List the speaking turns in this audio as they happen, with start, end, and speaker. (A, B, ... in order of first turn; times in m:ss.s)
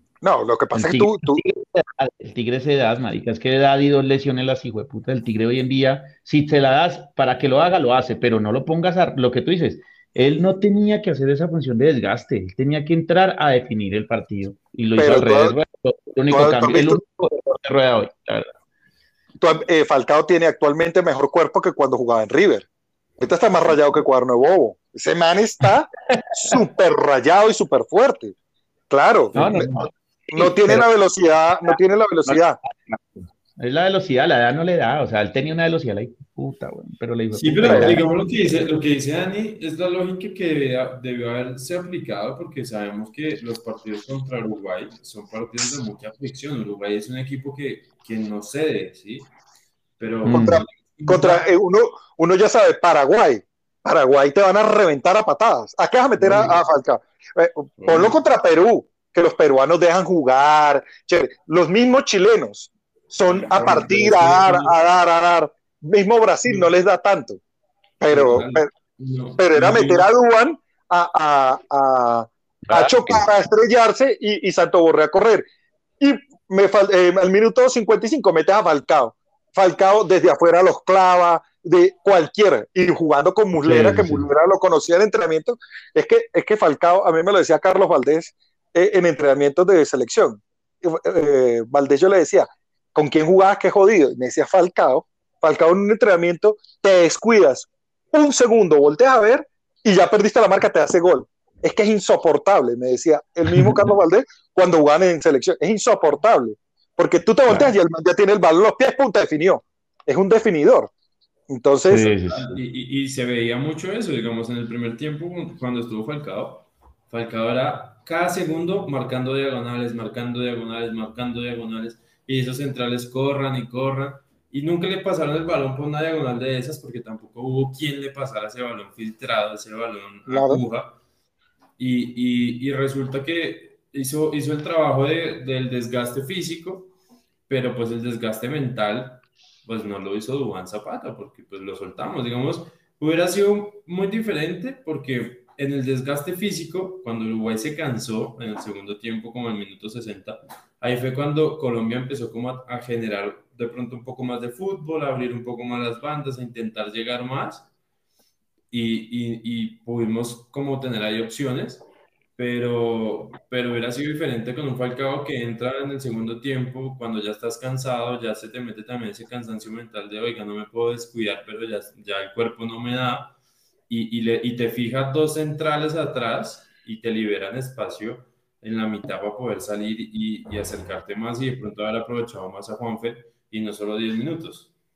0:00.2-0:01.4 A
0:00.8-0:18.5 B
0:15.0-0:15.5 A
0:16.3-0:17.0 A
0:19.4-0:22.7 A
0:23.2-0:25.9 A
0:26.1-0:26.6 B
0:26.4-0:28.3 A
0:28.9-0:29.6 A
0:29.3-0:29.9 C
0:29.4-0:30.8 B
0:30.3-0:32.6 A
0:31.7-0:38.0 B
0:37.3-0:49.3 C
0:37.7-0:38.0 A
0:50.0-0:51.5 C
0:50.2-0:50.6 B
0:50.3-1:07.4 A
0:56.2-0:56.6 C
0:57.8-0:58.2 C
1:03.3-1:04.7 C
1:08.0-1:08.7 A
1:08.1-1:10.1 C
1:09.4-1:15.4 A
1:12.6-1:13.3 B
1:16.0-1:50.9 A
1:23.6-1:24.3 B
1:43.5-1:43.8 B
1:47.5-1:47.7 B
1:51.5-1:52.1 A
1:51.9-1:52.5 B
1:52.2-2:11.0 C
2:10.3-2:10.6 A
2:11.8-2:16.9 C
2:17.5-2:37.7 C
2:38.7-2:53.3 C
2:53.9-3:04.7 C